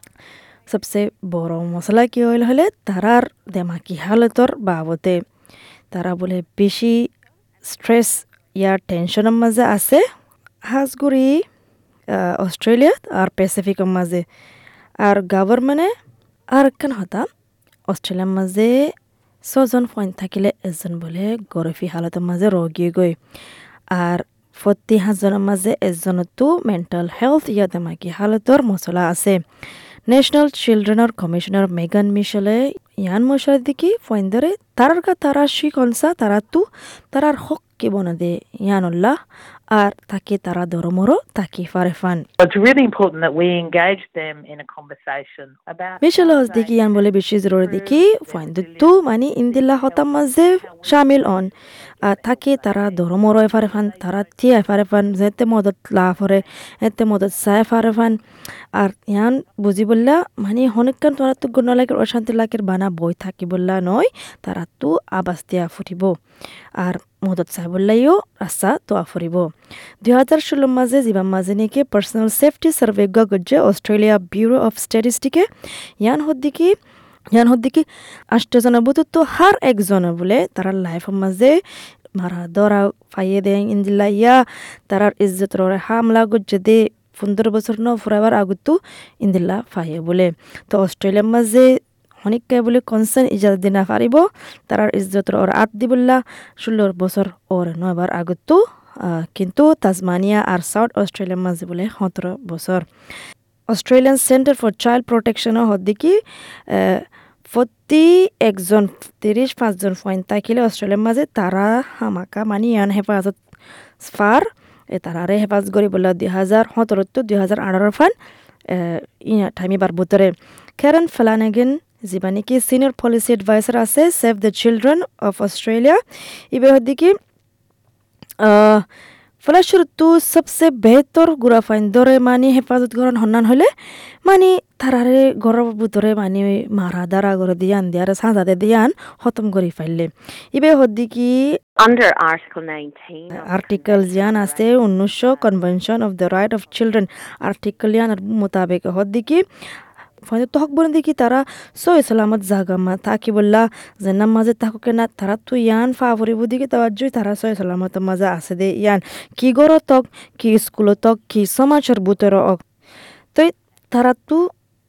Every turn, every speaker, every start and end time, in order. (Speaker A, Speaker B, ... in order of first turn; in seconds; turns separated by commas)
Speaker A: 0.7-5.2, Speaker A: 5.9-7.1, Speaker A: 7.6-10.0, Speaker A: 10.6-11.4, Speaker A: 12.1-14.2, Speaker A: 15.0-15.9, Speaker A: 16.5-17.2, Speaker A: 17.9-18.9, Speaker A: 19.4-23.2, Speaker A: 23.9-29.4, Speaker A: 30.1-39.1, Speaker A: 39.7-42.2, Speaker B: 42.4-51.4, Speaker A: 46.0-58.2, Speaker B: 52.0-54.2, Speaker A: 58.8-66.1, Speaker A: 66.8-69.5, Speaker A: 70.0-75.5, Speaker A: 76.0-76.7, Speaker A: 77.3-81.6, Speaker A: 82.2-102.8, Speaker A: 103.7-113.4, Speaker A: 114.0-118.1, Speaker A: 118.7-126.0, Speaker A: 126.5-127.1, Speaker A: 128.4-128.8, Speaker A: 129.4-133.7, Speaker A: 134.2-141.4, Speaker C: 141.8-145.6, Speaker A: 143.3-149.4, Speaker A: 150.2-162.6, Speaker A: 163.3-164.5